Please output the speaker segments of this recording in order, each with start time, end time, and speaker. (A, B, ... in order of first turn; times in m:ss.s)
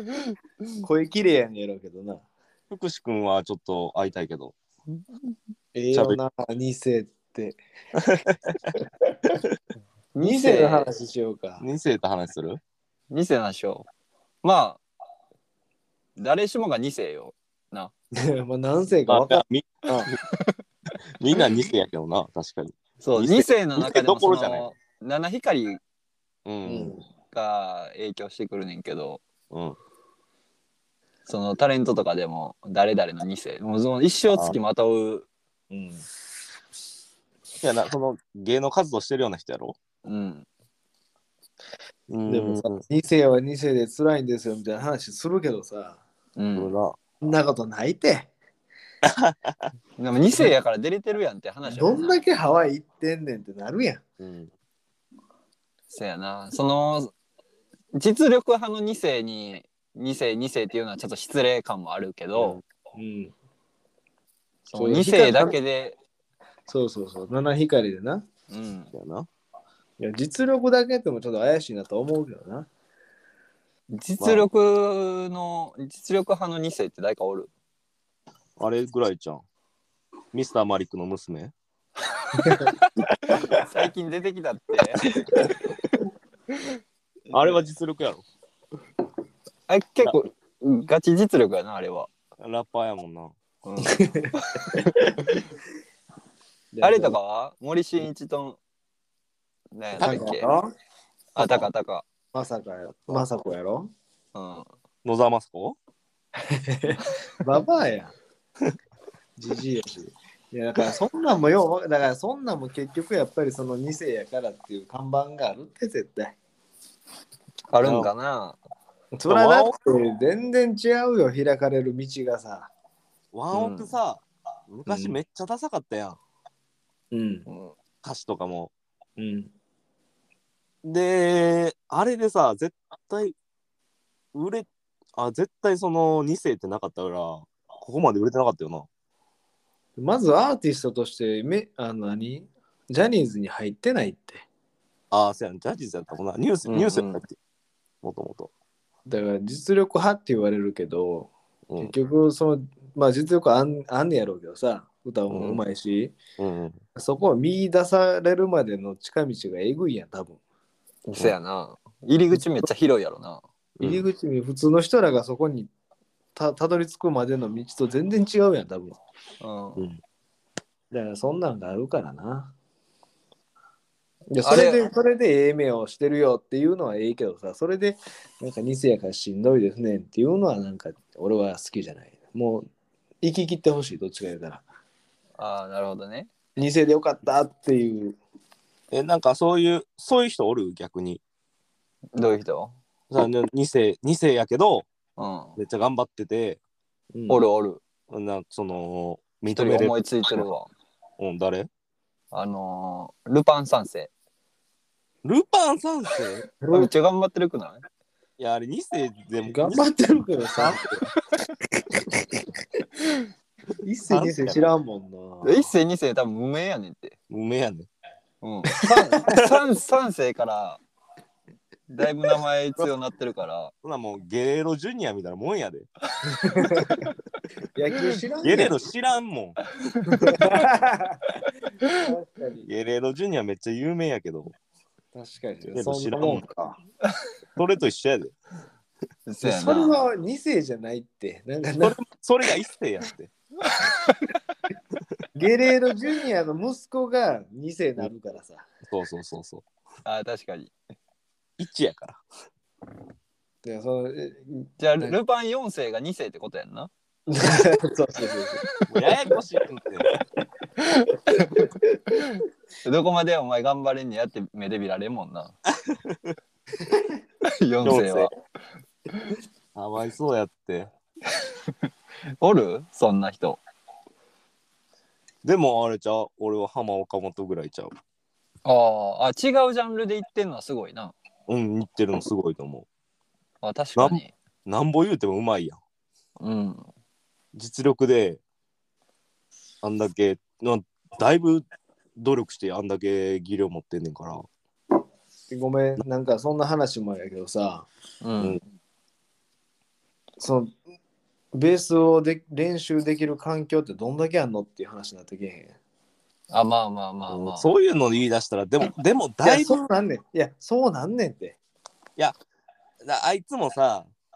0:00.8-0:02.2 A
0:02.7-0:04.5 B
0:05.7-0:07.6 A
0:05.9-0:06.2 B
0:08.0-0:08.5 B
0:08.8-0:09.1 A
0:10.1-0:10.9 C
0:10.2-0:11.6 A
0:11.6-0:12.6 B
0:13.1-0:13.9 C
0:14.4-0:14.8 C
0:16.2-0:17.9 C
0:18.1-0:20.1 A
0:19.1-0:20.2 B
0:21.2-0:24.7 B
0:23.0-0:25.8 C
0:26.4-0:26.9 B
0:26.6-0:27.0 A
0:27.3-0:29.2 C
0:29.5-0:29.8 B
0:31.2-0:35.3 C
0:35.7-0:36.0 A
0:37.6-0:39.8 B
0:40.0-0:40.4 C
0:42.1-0:42.8 B
0:42.3-0:46.0 A
0:46.4-0:46.7 C
0:46.5-0:47.0 B
0:47.2-0:48.3 A
0:49.0-0:49.7 B
0:50.0-0:52.2 C
0:51.6-0:54.0 A
0:54.2-0:54.5 B
0:55.9-0:57.1 C
0:57.9-1:02.6 C
1:02.3-1:02.6 B
1:02.9-1:03.3 A
1:04.7-1:06.0 C
1:04.7-1:05.6 A
1:06.7-1:08.2 A
1:08.5-1:08.9 C
1:08.9-1:09.3 B
1:10.0-1:12.7 A
1:13.9-1:17.5 C
1:14.2-1:14.5 B
1:18.6-1:19.4 B
1:20.3-1:21.5 B
1:22.4-1:25.1 C
1:27.3-1:28.2 B
1:29.7-1:32.1 C
1:32.4-1:33.3 B
1:33.6-1:35.4 C
1:33.8-1:35.1 A
1:36.7-1:37.2 A
1:36.8-1:38.6 C
1:39.7-1:40.5 C
1:40.0-1:40.7 A
1:41.3-1:42.0 C
1:42.3-1:43.9 A
1:44.3-1:44.7 C
1:45.0-1:45.8 B
1:46.5-1:48.1 A
1:49.4-1:56.4 A
1:57.7-1:58.6 C
1:57.8-1:58.1 B
1:59.1-2:02.7 A
1:59.3-1:59.7 B
2:03.3-2:06.2 B
2:03.5-2:03.9 C
2:04.8-2:05.2 A
2:07.1-2:07.4 A
2:07.5-2:07.7 C
2:08.0-2:08.7 B
2:09.2-2:09.5 A
2:10.8-2:13.3 B
2:14.3-2:18.9 B
2:20.0-2:24.4 A
2:25.1-2:27.3 B
2:26.7-2:27.2 C
2:28.0-2:28.5 B
2:29.1-2:36.2 A
2:35.3-2:35.6 B
2:36.4-2:36.8 B
2:37.0-2:40.4 A
2:41.0-2:43.4 C
2:43.8-2:44.0 B
2:43.8-2:45.7 A
2:46.4-2:49.0 A
2:49.4-2:49.8 C
2:50.9-2:52.5 A
2:54.3-3:02.6 A
2:54.4-2:54.8 C
3:03.2-3:04.6 A
3:05.4-3:06.3 C
3:06.6-3:08.2 A
3:08.9-3:11.2 B
3:12.2-3:12.8 C
3:13.1-3:14.9 B
3:15.2-3:15.6 C
3:15.6-3:16.6 B
3:17.1-3:17.4 A
3:17.3-3:17.8 C
3:18.1-3:20.4 B
3:19.6-3:20.7 C
3:21.2-3:21.7 B
3:22.3-3:24.1 C
3:25.2-3:26.4 B
3:26.6-3:26.9 A
3:26.7-3:27.8 C
3:28.4-3:29.8 B
3:29.4-3:30.8 A
3:30.6-3:31.0 B
3:32.0-3:32.4 A
3:33.8-3:35.7 A
3:34.1-3:34.7 B
3:35.4-3:37.1 C
3:37.3-3:37.9 B
3:38.4-3:40.8 C
3:38.8-3:39.2 A
3:41.9-3:43.7 C
3:43.8-3:45.9 B
3:46.3-3:47.0 A
3:47.7-3:48.8 A
3:48.4-3:49.6 B
3:50.0-3:50.3 C
3:50.2-3:51.3 A
3:51.9-3:52.7 A
3:52.6-3:54.5 B
3:55.1-3:56.8 A
3:55.7-3:56.4 B
3:57.6-3:58.3 B
3:59.3-4:00.0 C
3:59.4-4:02.0 A
4:01.8-4:03.3 B
4:03.7-4:04.2 C
4:05.3-4:08.6 A
4:08.9-4:09.6 B
4:10.0-4:10.7 C
4:11.6-4:12.2 B
4:13.6-4:15.1 A
4:14.8-4:16.9 C
4:17.3-4:18.7 A
4:18.9-4:20.1 B
4:20.8-4:25.5 C
4:25.7-4:26.4 B
4:27.5-4:28.3 C
4:27.8-4:28.3 B
4:29.7-4:30.9 B
4:32.4-4:33.6 C
4:35.4-4:37.9 B
4:38.6-4:41.1 C
4:41.5-4:42.9 B
4:43.6-4:44.3 C
4:44.0-4:45.8 B
4:46.4-4:46.9 C
4:47.5-4:48.4 B
4:49.8-4:51.6 B
4:52.2-4:54.4 B
4:55.5-4:57.9 A
4:58.2-4:58.6 C
5:00.4-5:00.8 A
5:01.5-5:05.7 A
5:06.5-5:07.7 C
5:07.3-5:09.8 B
5:09.4-5:11.6 A
5:13.0-5:14.1 B